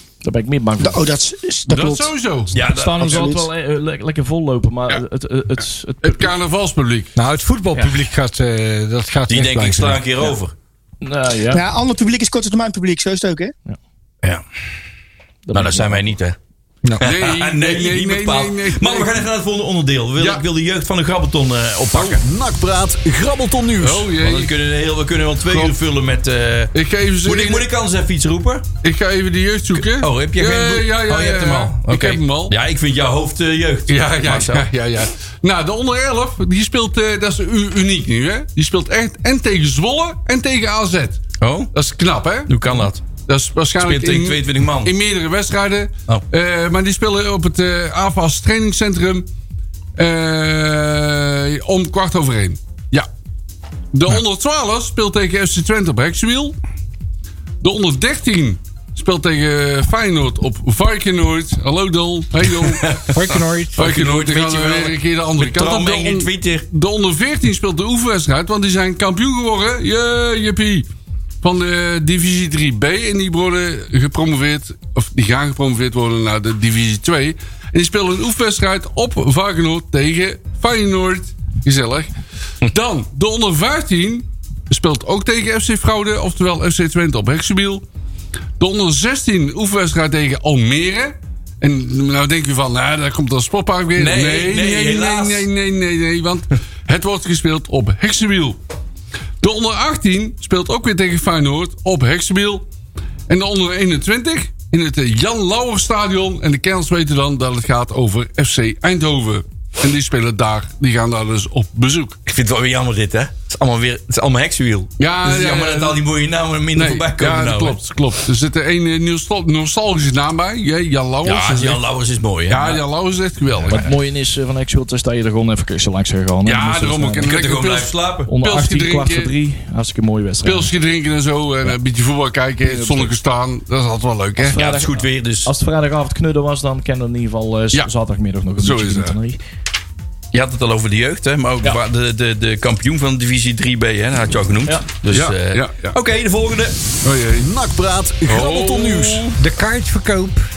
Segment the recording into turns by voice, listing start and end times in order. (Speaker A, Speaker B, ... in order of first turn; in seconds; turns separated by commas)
Speaker A: 0.2-1.0, Speaker B: 0.8-2.1, Speaker C: 1.7-2.5, Speaker D: 2.5-3.4, Speaker A: 2.6-6.3, Speaker B: 3.1-3.4, Speaker C: 6.0-7.1, Speaker E: 7.2-10.0, Speaker D: 9.3-10.5, Speaker A: 11.0-11.6, Speaker B: 11.5-13.5, Speaker A: 15.5-16.2, Speaker D: 15.5-16.4, Speaker D: 17.0-22.2, Speaker C: 17.0-19.2, Speaker C: 20.2-20.4, Speaker F: 21.9-24.1, Speaker C: 23.8-24.5, Speaker D: 24.1-26.7, Speaker C: 25.4-25.8, Speaker C: 26.7-27.7, Speaker D: 27.2-28.6, Speaker C: 28.8-32.5, Speaker D: 29.8-34.7, Speaker C: 33.9-41.2, Speaker D: 41.4-41.7, Speaker C: 41.7-49.3, Speaker D: 42.5-43.0, Speaker D: 43.8-44.9, Speaker C: 50.0-53.1, Speaker C: 53.9-56.6, Speaker C: 57.6-63.0, Speaker D: 62.4-63.2, Speaker E: 63.1-64.0, Speaker D: 63.8-66.7, Speaker C: 63.8-70.9, Speaker C: 71.4-82.1, Speaker C: 82.7-87.8, Speaker C: 88.6-98.6, Speaker D: 94.0-95.5, Speaker C: 99.4-102.6, Speaker C: 103.3-112.2, Speaker D: 112.2-117.8, Speaker C: 115.0-116.0, Speaker C: 116.7-121.8, Speaker D: 121.2-122.8, Speaker C: 122.5-123.8, Speaker A: 123.7-127.3, Speaker C: 126.4-129.3, Speaker D: 127.2-128.3, Speaker A: 128.3-130.7, Speaker C: 130.4-134.6, Speaker A: 132.6-133.1, Speaker A: 134.4-139.4, Speaker D: 134.5-135.5, Speaker C: 138.6-139.2, Speaker D: 140.3-146.8, Speaker C: 145.1-145.9, Speaker C: 147.0-147.5, Speaker F: 147.3-149.3, Speaker C: 148.3-149.2, Speaker E: 149.4-150.5